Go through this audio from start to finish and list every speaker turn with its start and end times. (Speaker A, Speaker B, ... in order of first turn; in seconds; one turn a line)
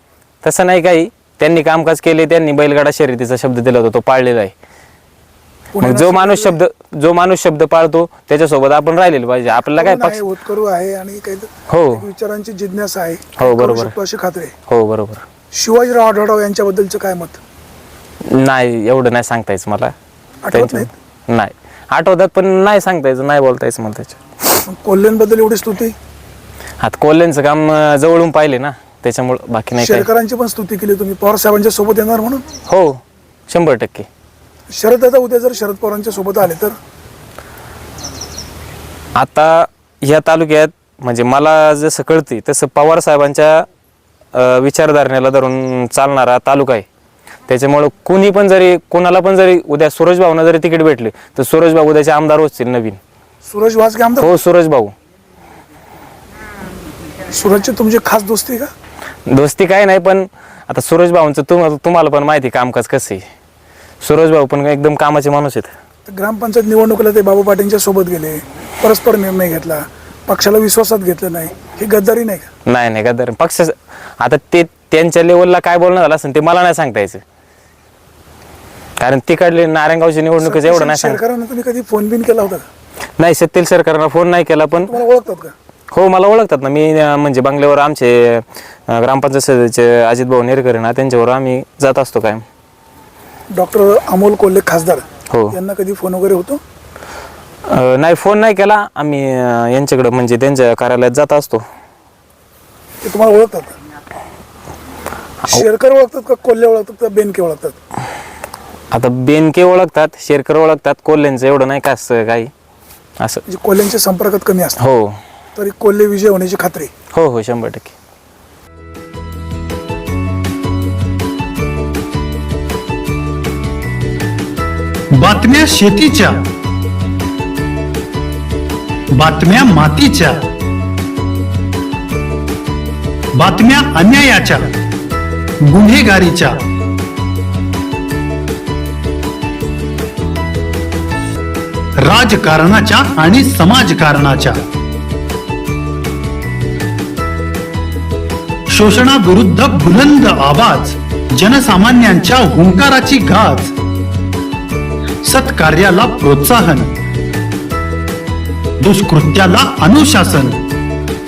Speaker A: 0.4-4.5
Speaker B: 5.7-6.6
Speaker A: 5.8-10.2
Speaker B: 9.7-14.5
Speaker A: 11.7-12.0
Speaker A: 13.4-13.9
Speaker A: 14.7-15.2
Speaker B: 15.5-17.4
Speaker A: 18.3-19.9
Speaker B: 20.4-20.9
Speaker A: 20.5-24.2
Speaker B: 24.6-25.9
Speaker A: 26.8-30.1
Speaker B: 29.8-32.4
Speaker A: 32.7-34.1
Speaker B: 34.7-36.8
Speaker A: 39.1-43.6
Speaker A: 44.3-46.8
Speaker A: 47.5-53.0
Speaker B: 53.5-54.3
Speaker A: 54.2-54.9
Speaker B: 57.3-58.7
Speaker A: 59.3-63.2
Speaker A: 64.0-65.7
Speaker B: 66.0-72.5
Speaker A: 72.7-77.2
Speaker A: 79.0-81.2
Speaker B: 80.4-82.7
Speaker A: 83.2-84.9
Speaker B: 84.8-85.5
Speaker A: 85.9-92.4
Speaker B: 93.5-96.6
Speaker A: 97.7-101.6
Speaker B: 103.0-103.7
Speaker B: 105.5-107.8
Speaker A: 108.9-112.5
Speaker B: 113.5-114.8
Speaker A: 114.8-115.2
Speaker B: 115.5-116.9
Speaker A: 117.1-117.9
Speaker C: 125.1-126.4
Speaker C: 129.2-130.5
Speaker C: 133.4-134.7
Speaker C: 135.7-136.6
Speaker C: 142.0-144.6
Speaker C: 148.7-153.7
Speaker C: 155.2-156.9
Speaker C: 158.8-160.6